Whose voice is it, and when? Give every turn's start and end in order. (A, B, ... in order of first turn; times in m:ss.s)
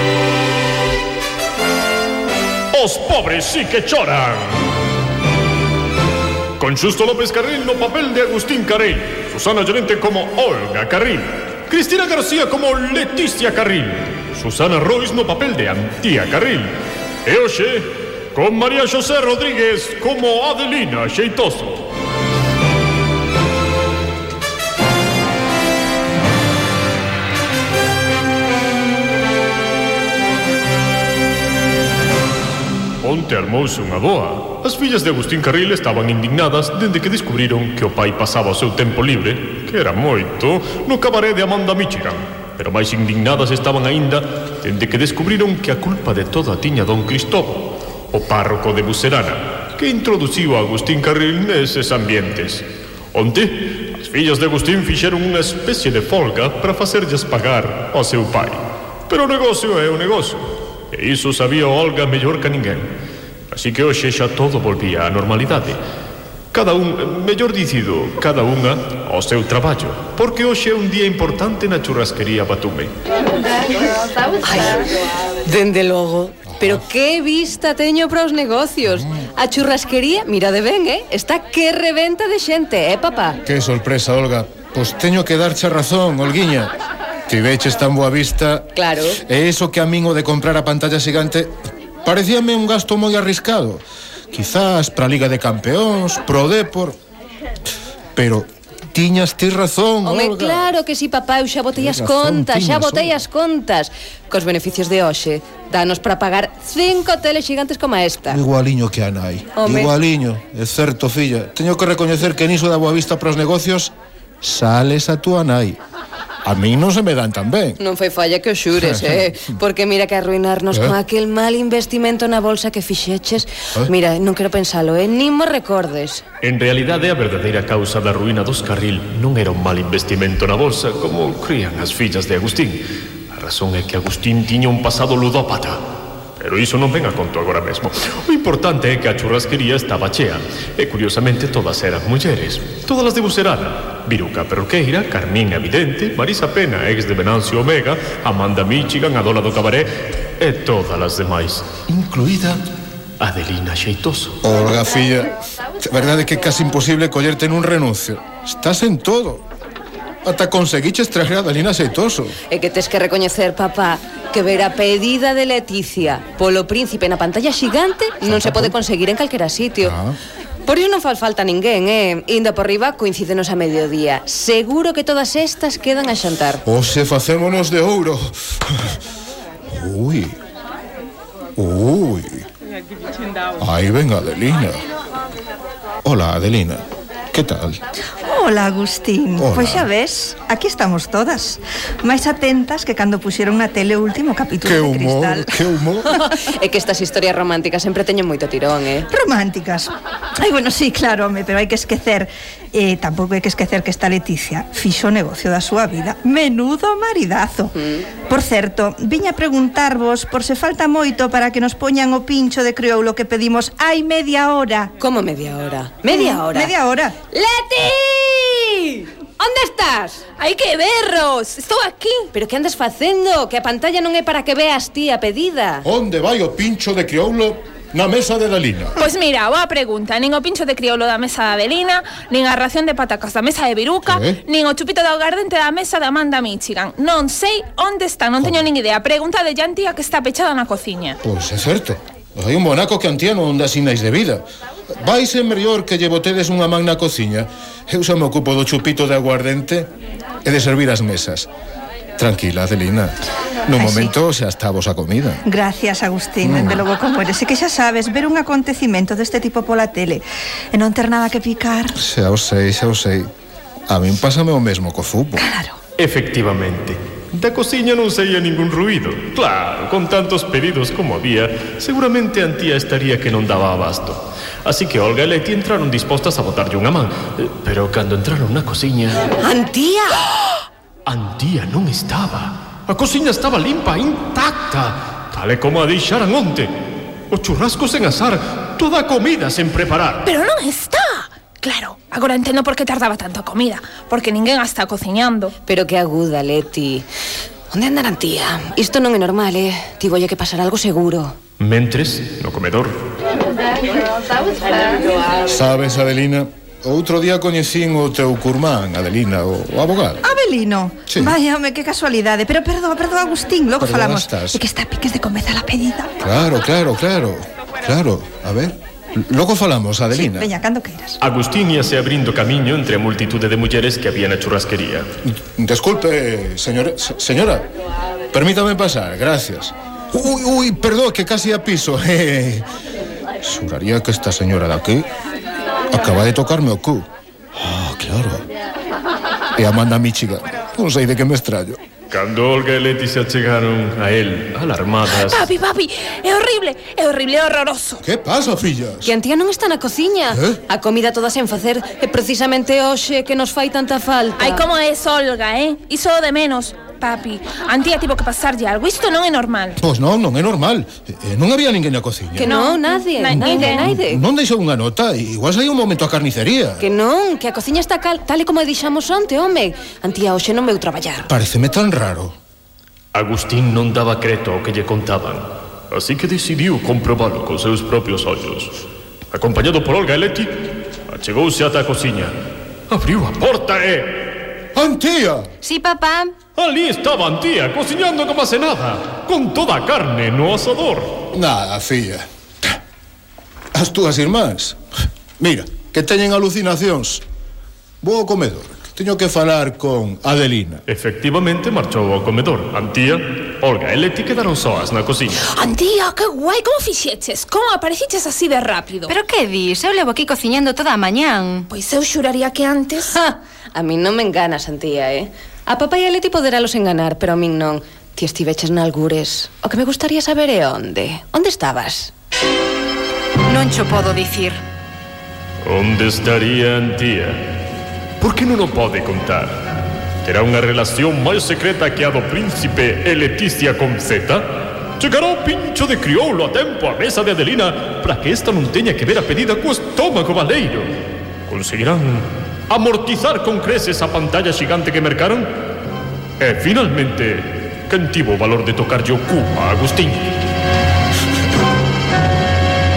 0:02.7-0:04.6 A
0:06.6-0:16.7 A
0:17.2-0:21.9 A
0:33.0-1:02.9 A
1:03.5-1:05.8 A
1:06.5-1:12.9 A
1:14.4-1:14.9 B
1:15.4-1:23.4 B
1:16.5-1:16.8 C
1:23.4-1:26.7 C
1:27.3-1:31.5 C
1:28.8-1:29.2 B
1:32.0-1:37.0 C
1:38.2-1:40.7 C
1:40.0-1:48.4 B
1:41.7-1:43.2 C
1:48.3-1:55.8 C
1:49.6-1:50.0 B
1:56.4-1:57.8 C
1:57.8-2:06.2 B
1:58.8-1:59.6 C
2:00.7-2:01.0 C
2:06.4-2:15.8 A
2:16.4-2:32.6 A
2:33.2-2:34.4 A
2:34.4-2:39.4 C
2:40.2-2:42.4 C
2:42.5-2:49.9 B
2:48.2-2:48.8 C
2:49.8-2:50.2 C
2:50.6-2:56.6 B
2:56.6-2:59.0 C
2:59.7-3:00.4 C
3:01.6-3:02.4 C
3:03.6-3:04.8 C
3:06.0-3:07.8 C
3:08.3-3:15.6 D
3:09.4-3:09.9 C
3:14.6-3:16.2 C
3:16.4-3:19.1 B
3:19.1-3:34.9 D
3:27.8-3:28.1 B
3:35.0-3:36.7 B
3:36.0-3:37.2 D
3:37.3-3:40.2 B
3:40.4-3:42.3 E
3:42.4-3:45.9 B
3:45.8-3:49.0 C
3:49.0-4:01.2 E
3:54.0-3:54.4 C
3:58.4-3:58.6 C
4:01.2-4:09.9 C
4:10.4-4:11.5 C
4:12.2-4:15.4 C
4:13.8-4:14.1 D
4:15.4-4:22.0 D
4:16.4-4:16.8 C
4:22.0-4:23.3 C
4:23.9-4:25.5 C
4:25.4-4:25.8 D
4:26.0-4:39.3 A
4:39.4-4:40.4 B
4:41.0-4:46.7 A
4:47.3-4:50.3 A
4:50.2-4:55.5 E
4:55.6-4:57.1 B
4:57.7-5:01.4 B
5:01.6-5:03.0 A
5:05.4-5:10.2 C
5:10.2-5:16.1 D
5:11.1-5:11.4 C
5:13.8-5:14.6 C
5:16.2-5:20.5 C
5:20.1-5:21.2 D
5:21.2-5:25.1 A
5:25.4-5:27.6 C
5:28.3-5:32.7 C
5:33.4-5:35.1 C
5:35.9-5:37.0 C
5:37.6-5:38.4 C
5:39.6-5:41.8 C
5:42.1-5:45.4 A
5:45.1-5:48.0 E
5:48.0-5:49.1 C
5:49.0-5:54.7 B
5:50.3-5:50.6 C
5:54.4-5:59.8 E
5:59.8-6:02.6 C
6:02.4-6:03.9 E
6:02.4-6:04.2 B
6:03.3-6:06.8 C
6:06.8-6:11.3 B
6:11.3-6:12.3 C
6:13.1-6:20.5 A
6:21.1-6:22.3 A
6:22.9-6:24.2 A
6:24.7-6:25.5 C
6:25.6-6:26.3 F
6:26.6-6:31.2 A
6:31.3-6:32.2 C
6:33.7-6:34.8 C
6:35.4-6:37.2 C
6:38.0-6:40.8 C
6:40.9-6:45.5 A
6:45.5-6:49.1 E
6:49.1-6:51.6 F
6:51.7-6:53.2 E
6:53.1-7:02.1 B
7:03.5-7:04.6 F
7:05.6-7:07.4 A
7:08.2-7:09.5 A
7:10.2-7:14.4 A
7:15.0-7:20.9 A
7:21.5-7:25.5 A
7:26.4-7:30.3 A